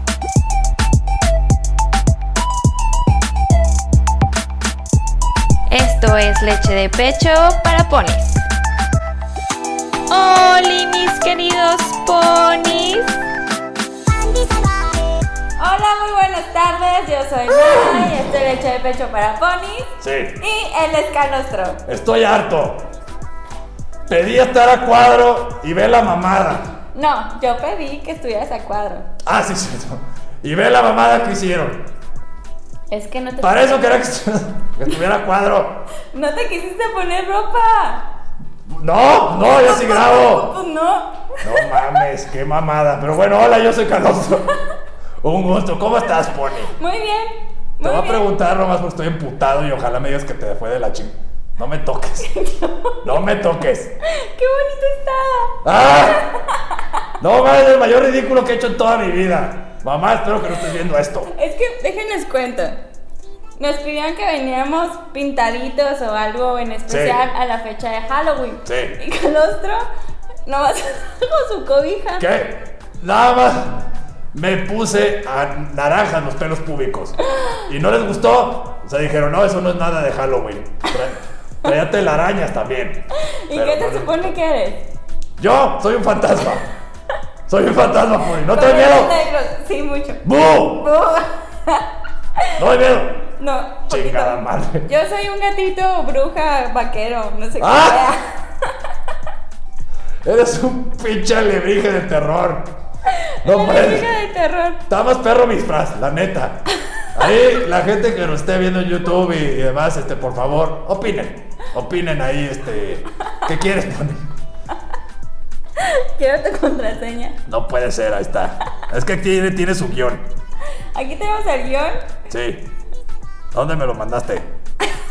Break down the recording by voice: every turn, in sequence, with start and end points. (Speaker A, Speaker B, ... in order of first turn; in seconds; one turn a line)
Speaker A: 5.7-8.5
Speaker A: 10.1-13.2
Speaker A: 15.6-21.8
Speaker B: 20.0-20.4
Speaker B: 21.9-22.9
Speaker B: 24.1-26.7
Speaker A: 26.9-29.1
Speaker B: 29.2-31.8
Speaker A: 32.9-33.7
Speaker B: 33.4-35.9
Speaker A: 36.1-38.1
Speaker B: 38.7-40.5
Speaker A: 39.4-42.0
Speaker B: 41.4-44.5
Speaker B: 45.2-46.7
Speaker A: 46.7-48.2
Speaker B: 47.8-52.3
Speaker A: 52.2-53.0
Speaker B: 53.0-54.0
Speaker A: 54.0-57.0
Speaker B: 55.6-56.3
Speaker B: 57.2-61.3
Speaker A: 61.3-62.8
Speaker A: 63.6-69.9
Speaker B: 66.9-67.2
Speaker B: 68.7-69.0
Speaker A: 70.5-72.3
Speaker B: 72.2-84.4
Speaker A: 83.2-84.9
Speaker B: 85.4-86.7
Speaker B: 87.5-89.1
Speaker A: 88.5-92.6
Speaker B: 90.2-90.9
Speaker B: 92.6-93.3
Speaker A: 93.4-98.7
Speaker B: 93.9-94.9
Speaker B: 97.6-98.1
Speaker B: 100.2-102.7
Speaker A: 103.1-104.8
Speaker B: 103.4-104.1
Speaker B: 104.9-114.3
Speaker A: 106.9-107.3
Speaker A: 115.8-117.4
Speaker B: 117.5-120.3
Speaker A: 120.9-122.1
Speaker B: 122.3-122.7
Speaker B: 123.5-124.5